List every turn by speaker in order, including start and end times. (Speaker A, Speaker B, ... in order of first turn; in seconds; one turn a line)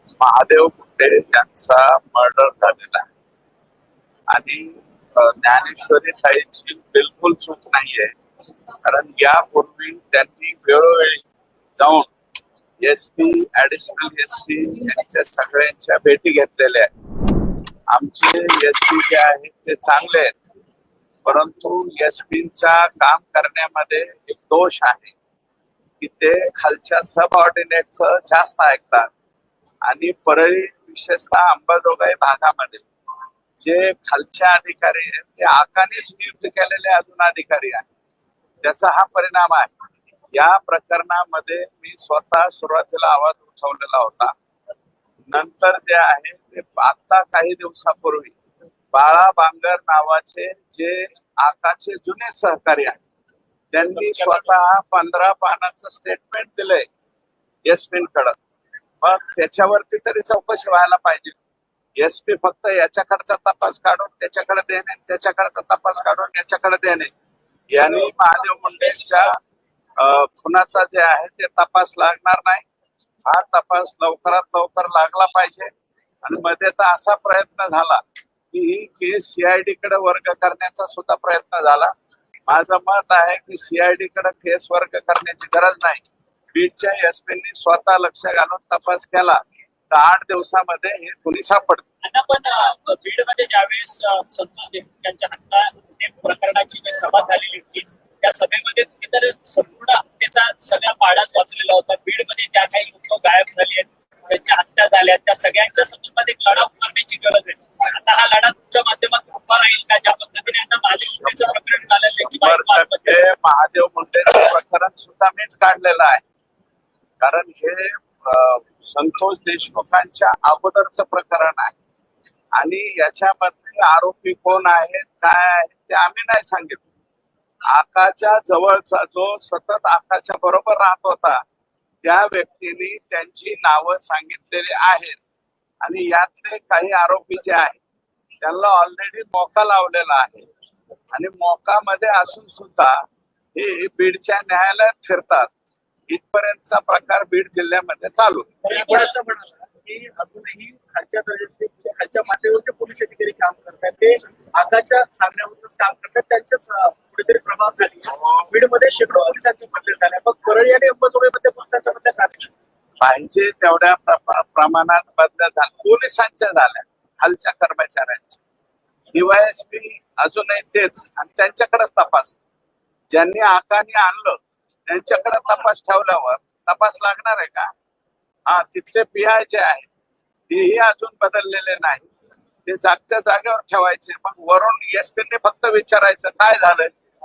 Speaker A: 0.2-3.0
Speaker A: 4.3-8.2
Speaker A: 8.8-11.2
Speaker A: 11.8-12.1
Speaker A: 12.8-16.9
Speaker A: 17.9-20.4
Speaker A: 21.2-25.1
Speaker A: 26.0-29.1
Speaker A: 29.8-32.9
Speaker A: 33.6-37.9
Speaker A: 38.6-39.7
Speaker A: 40.3-44.3
Speaker A: 45.3-48.4
Speaker A: 48.9-53.0
Speaker A: 53.7-56.9
Speaker B: 53.9-54.6
Speaker A: 57.6-58.3
Speaker A: 59.0-61.4
Speaker A: 62.0-67.1
Speaker A: 67.7-69.4
Speaker B: 68.1-69.2
Speaker A: 70.0-72.6
Speaker A: 73.2-75.7
Speaker A: 76.2-81.9
Speaker A: 82.5-91.8
Speaker B: 92.0-113.2
Speaker A: 110.9-116.2
Speaker A: 117.2-121.7
Speaker A: 122.5-126.8
Speaker A: 127.7-131.4
Speaker A: 132.0-135.2
Speaker A: 135.8-137.8
Speaker A: 138.4-140.4
Speaker A: 141.1-145.5
Speaker A: 146.1-148.5
Speaker B: 148.6-149.1
Speaker C: 148.6-162.5
Speaker A: 158.1-158.5
Speaker A: 163.0-168.4
Speaker A: 169.1-172.4
Speaker A: 173.1-177.7
Speaker A: 178.5-179.9
Speaker A: 180.5-182.1
Speaker A: 182.7-186.9